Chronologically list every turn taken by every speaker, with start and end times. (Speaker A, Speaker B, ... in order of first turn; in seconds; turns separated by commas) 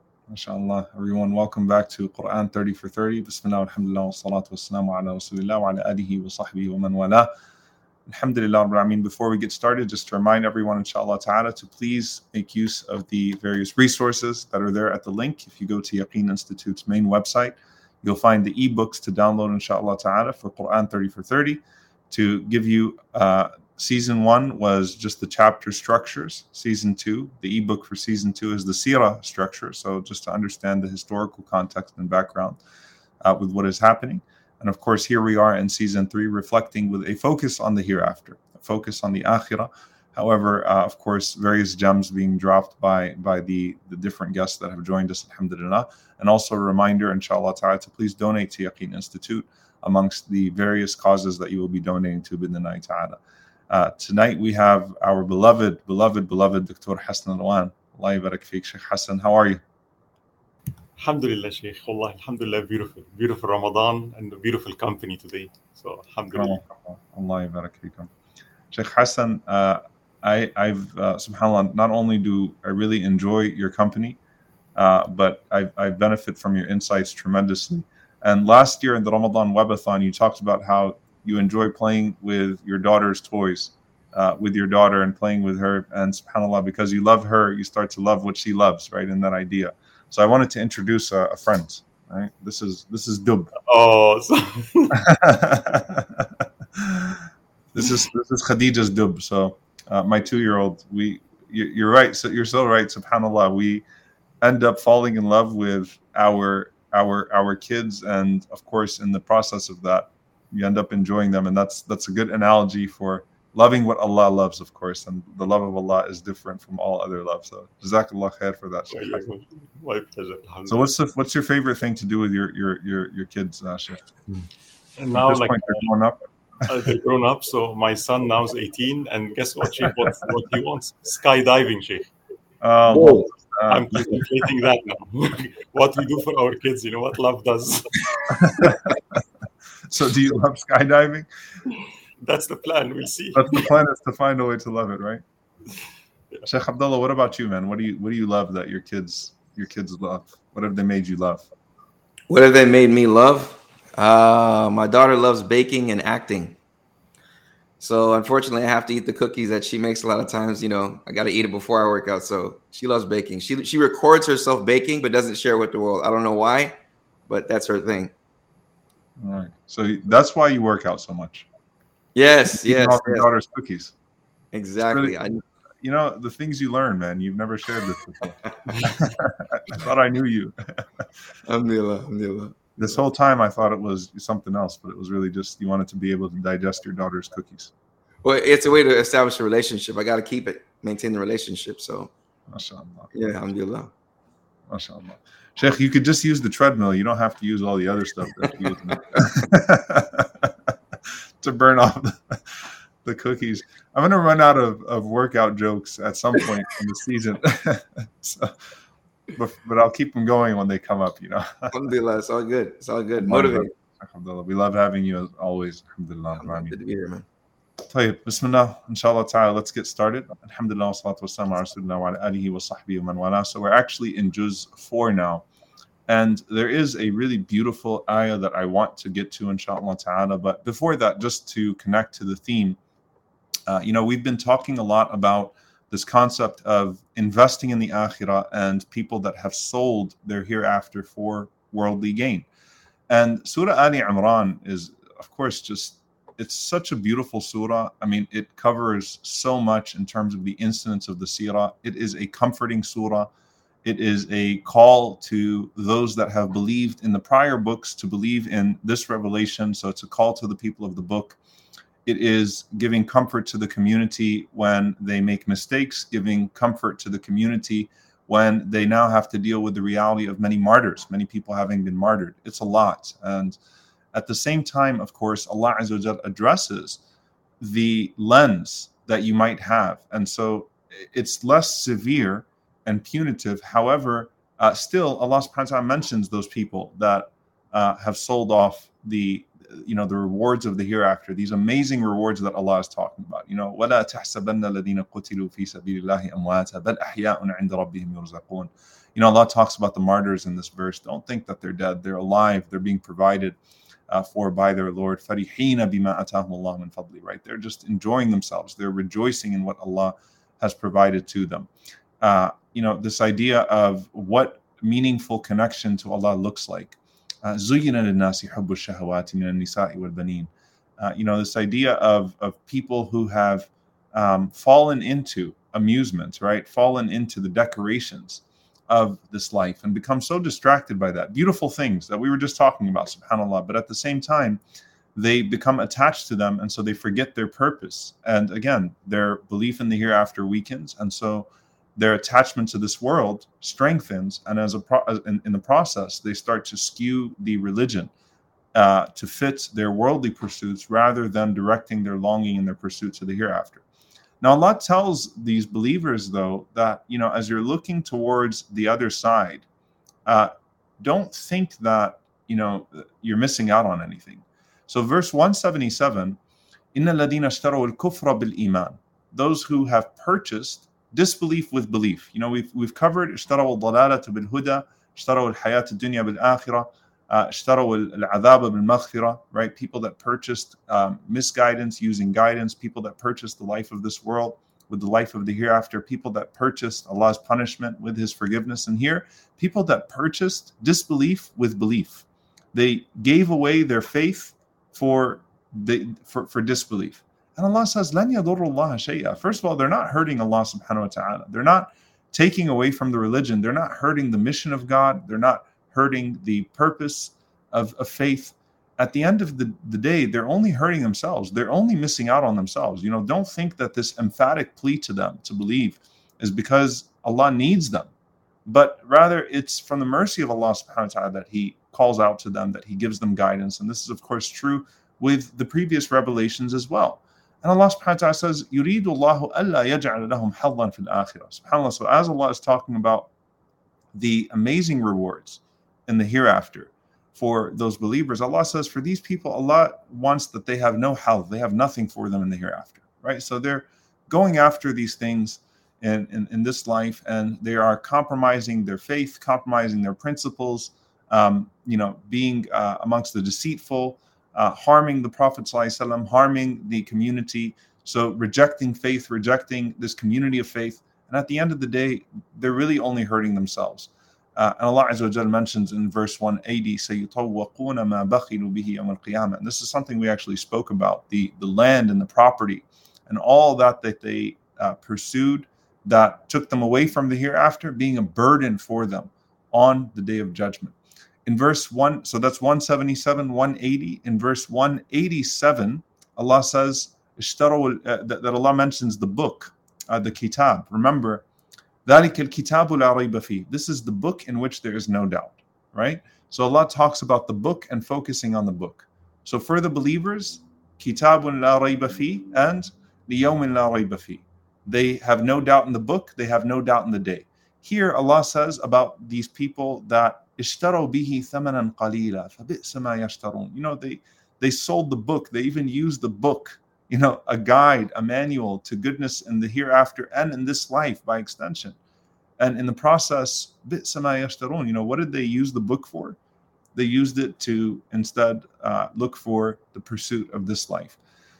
Speaker A: 0.3-7.3, Speaker A: 8.1-32.6, Speaker A: 33.2-53.2, Speaker A: 53.7-59.6, Speaker B: 61.0-66.6, Speaker A: 66.3-68.1, Speaker A: 68.7-74.2, Speaker A: 74.8-93.5, Speaker B: 93.7-95.0, Speaker A: 94.9-103.8, Speaker A: 104.4-119.3, Speaker B: 118.9-120.8, Speaker A: 120.7-124.1, Speaker B: 125.0-125.9, Speaker A: 125.1-126.2, Speaker B: 126.7-132.1, Speaker A: 132.6-134.2, Speaker C: 132.9-133.3, Speaker B: 133.7-138.0, Speaker A: 138.3-139.2, Speaker A: 139.9-141.3, Speaker B: 142.2-143.6, Speaker A: 143.3-145.2, Speaker A: 146.4-151.5, Speaker C: 152.3-156.6, Speaker C: 157.8-166.8, Speaker C: 167.3-168.1, Speaker A: 169.2-171.5, Speaker C: 172.2-173.3, Speaker A: 172.5-173.9, Speaker C: 174.5-175.4, Speaker A: 174.8-175.2, Speaker A: 175.8-180.5, Speaker C: 178.7-178.9, Speaker C: 181.5-183.0, Speaker A: 182.8-187.7, Speaker C: 188.2-192.1, Speaker A: 192.5-193.1, Speaker C: 193.1-193.9, Speaker A: 194.7-200.7, Speaker C: 198.4-199.2, Speaker A: 201.4-208.5, Speaker A: 209.4-211.7, Speaker C: 211.7-213.7, Speaker A: 213.2-216.8, Speaker C: 216.4-217.2, Speaker A: 217.9-225.4, Speaker A: 226.1-232.8, Speaker A: 233.7-242.5, Speaker A: 243.1-253.3, Speaker A: 253.8-261.4, Speaker A: 262.1-273.6, Speaker A: 274.1-277.0, Speaker A: 277.6-303.6, Speaker A: 304.1-311.7, Speaker A: 312.2-334.6, Speaker A: 335.1-348.1, Speaker A: 348.8-353.8, Speaker A: 354.4-359.7, Speaker A: 360.3-366.4, Speaker A: 366.9-418.1, Speaker A: 418.7-433.3, Speaker A: 434.1-480.9, Speaker A: 481.5-491.4, Speaker A: 492.1-522.0, Speaker A: 522.6-526.4, Speaker A: 527.0-531.2